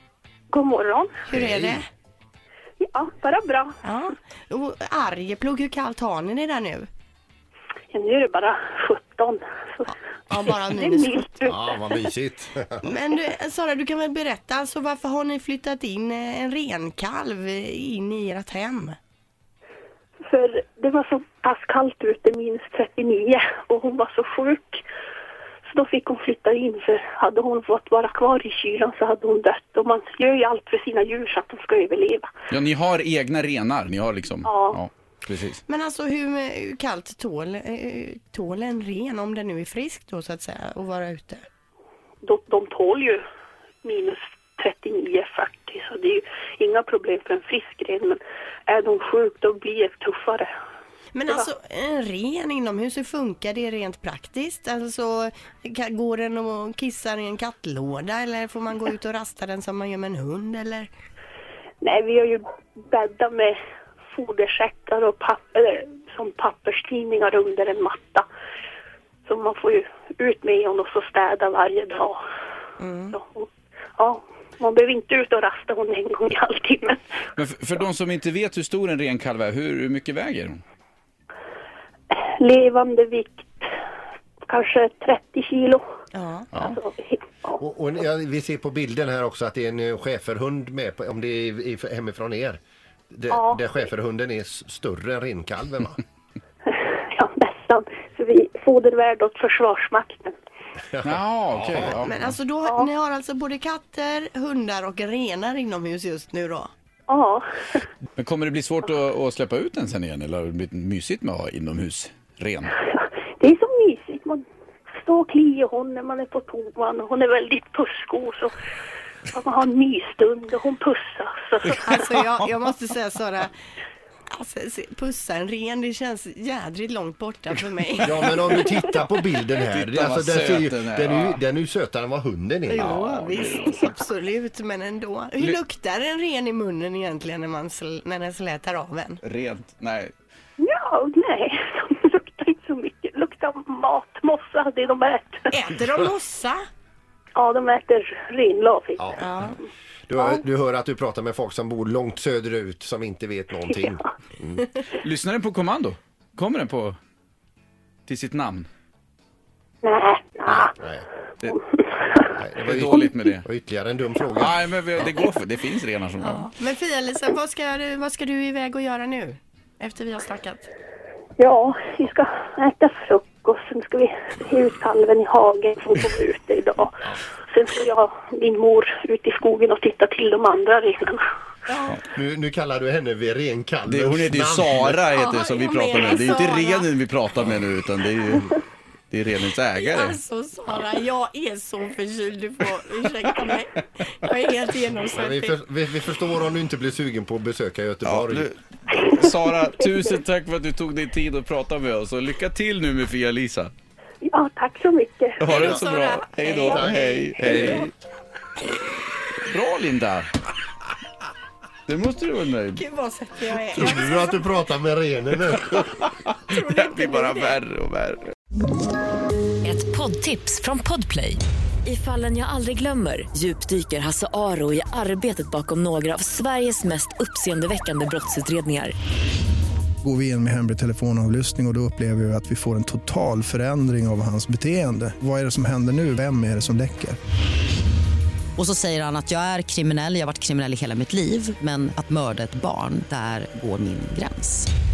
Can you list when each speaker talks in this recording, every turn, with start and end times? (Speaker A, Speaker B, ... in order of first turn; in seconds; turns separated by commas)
Speaker A: 0.5-1.3, Speaker B: 1.3-1.8, Speaker C: 1.3-1.9, Speaker A: 2.8-3.8, Speaker C: 3.8-6.9, Speaker A: 7.9-9.9, Speaker C: 10.3-11.4, Speaker A: 10.4-11.9, Speaker B: 11.5-12.9, Speaker C: 12.8-19.0, Speaker A: 20.2-24.8, Speaker A: 25.7-32.3, Speaker D: 32.5-35.6, Speaker A: 34.4-34.8, Speaker C: 35.7-41.4, Speaker A: 42.2-43.2, Speaker A: 43.8-50.5, Speaker C: 51.1-60.9, Speaker A: 61.8-63.5, Speaker A: 64.1-68.2, Speaker A: 69.2-72.2, Speaker C: 72.8-73.2, Speaker A: 73.1-77.0, Speaker D: 77.3-80.6, Speaker A: 82.1-83.7, Speaker A: 84.5-85.8, Speaker C: 86.1-86.5, Speaker A: 86.5-87.5, Speaker B: 87.6-92.6, Speaker B: 93.1-96.0, Speaker A: 93.3-93.7, Speaker A: 96.6-100.3, Speaker B: 100.9-102.0, Speaker D: 101.0-102.3, Speaker C: 102.0-106.7, Speaker A: 107.1-107.8, Speaker D: 108.2-112.8, Speaker A: 112.8-114.4, Speaker A: 115.0-118.5, Speaker A: 119.3-122.0, Speaker C: 121.8-123.5, Speaker C: 124.3-128.4, Speaker B: 128.0-133.0, Speaker D: 129.7-131.4, Speaker C: 132.7-139.2, Speaker D: 132.8-133.9, Speaker D: 139.2-140.1, Speaker A: 140.6-145.5, Speaker C: 145.5-146.6, Speaker A: 147.3-149.3, Speaker B: 149.0-149.2, Speaker C: 149.2-149.6, Speaker B: 150.1-154.7, Speaker D: 155.0-157.0, Speaker D: 158.1-158.7, Speaker A: 159.8-160.7, Speaker B: 160.5-161.1, Speaker A: 161.4-162.3, Speaker B: 162.4-164.6, Speaker D: 162.6-163.4, Speaker D: 164.3-166.5, Speaker C: 166.2-170.7, Speaker A: 171.4-181.2, Speaker C: 181.7-182.0, Speaker B: 182.1-185.0, Speaker D: 183.9-188.5, Speaker C: 185.1-186.9, Speaker D: 189.1-190.2, Speaker C: 189.8-195.6, Speaker B: 195.2-198.5, Speaker D: 198.0-203.7, Speaker A: 204.2-206.9, Speaker D: 205.4-207.9, Speaker B: 205.5-205.8, Speaker C: 205.5-206.8, Speaker B: 206.7-207.8, Speaker D: 209.4-210.3, Speaker D: 211.9-212.8, Speaker C: 212.7-214.4, Speaker B: 213.7-216.0, Speaker C: 216.5-217.6, Speaker D: 216.5-218.3, Speaker E: 219.6-228.9, Speaker F: 230.0-237.2, Speaker G: 238.6-244.7